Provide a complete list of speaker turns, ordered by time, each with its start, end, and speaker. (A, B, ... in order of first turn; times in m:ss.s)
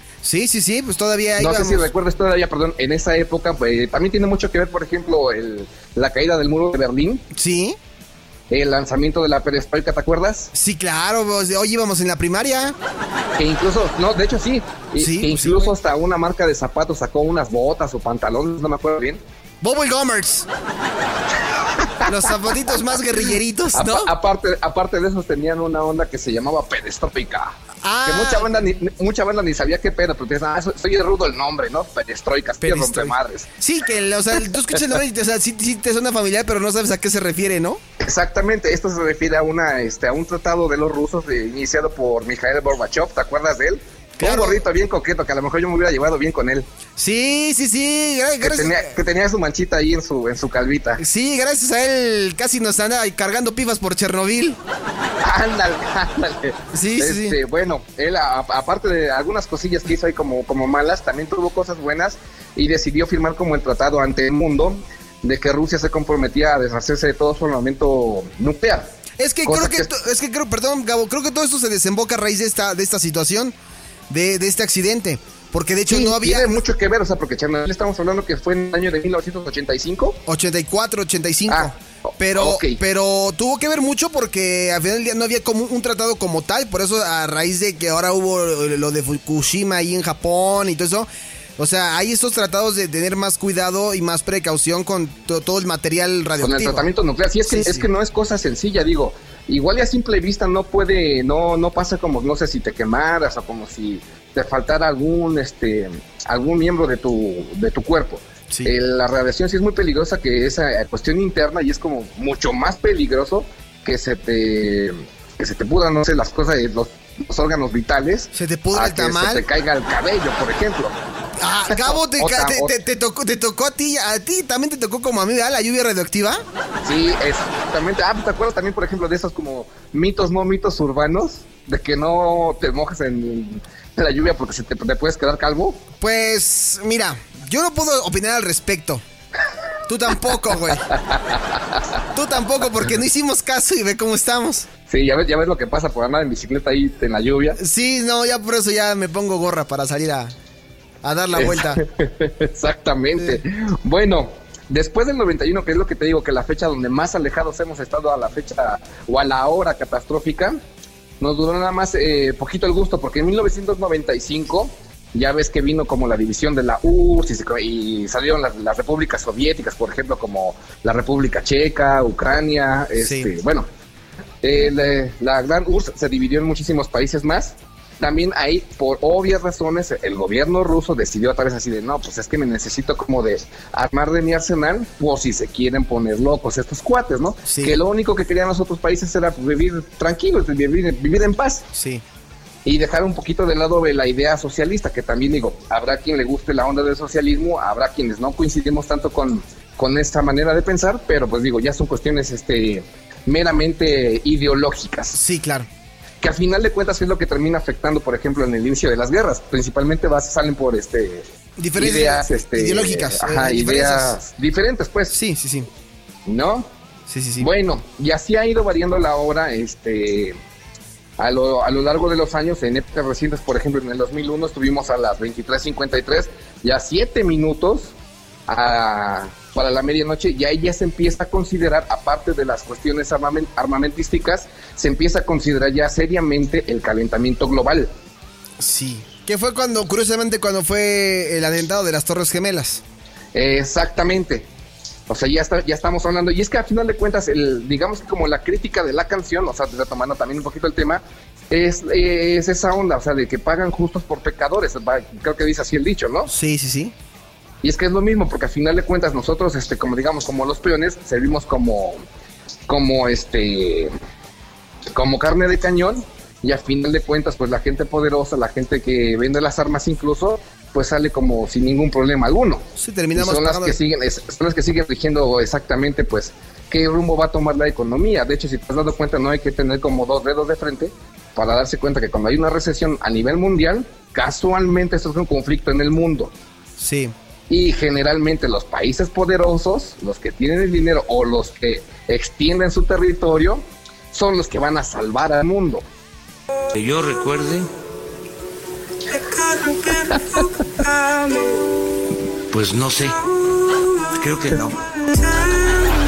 0:00.2-0:01.9 A
0:01.4-0:07.2 B
0:07.3-0:07.8 A
0:08.5-0:10.5 B
0:10.5-0:12.8 A
0:13.4-0:19.2 B
0:15.0-0:15.7 A
0:19.6-0:20.5 A
0:21.8-0:23.2 B
0:22.0-0:24.1 A
0:23.7-0:33.5 B
0:27.8-0:28.5 A
0:32.6-0:37.8 A
0:38.0-0:46.7 B
0:44.2-0:44.6 A
0:47.0-0:48.9 A
0:48.4-0:51.0 B
0:51.0-0:54.6 A
0:55.2-1:08.9 B
0:56.7-0:57.4 A
1:09.2-1:13.5 A
1:09.4-1:09.9 B
1:14.1-1:16.6 A
1:15.9-1:20.2 B
1:20.2-1:36.9 A
1:21.5-1:21.7 B
1:22.3-1:22.8 B
1:36.4-2:01.0 B
1:37.5-1:37.8 A
1:48.5-1:48.7 A
1:58.3-1:59.4 A
2:01.4-2:06.4 A
2:01.7-2:02.8 B
2:06.8-2:15.8 B
2:16.0-2:19.0 A
2:19.8-2:20.9 A
2:20.9-2:21.8 B
2:22.1-2:24.7 A
2:24.9-2:27.6 B
2:27.6-2:30.3 A
2:31.0-2:31.8 A
2:31.3-2:40.6 B
2:41.2-2:53.7 B
2:53.0-2:53.3 A
2:54.4-3:11.7 B
3:07.5-3:07.8 A
3:11.7-3:12.0 A
3:12.6-3:25.2 B
3:25.1-3:25.7 A
3:26.2-3:35.1 B
3:31.6-3:34.2 A
3:35.1-3:35.7 A
3:36.2-3:36.7 B
3:37.1-3:37.5 A
3:37.4-3:40.4 B
3:41.2-3:47.9 B
3:48.5-3:57.9 B
3:58.6-4:02.8 A
4:03.3-4:04.5 B
4:05.1-4:16.3 B
4:16.3-4:16.9 A
4:17.6-4:22.0 B
4:22.7-4:23.9 B
4:24.9-4:46.3 B
4:32.8-4:33.8 A
4:46.8-4:47.1 A
4:47.5-4:55.8 B
4:56.7-4:57.7 C
5:00.2-5:00.5 B
5:02.5-5:03.2 C
5:04.1-5:05.3 C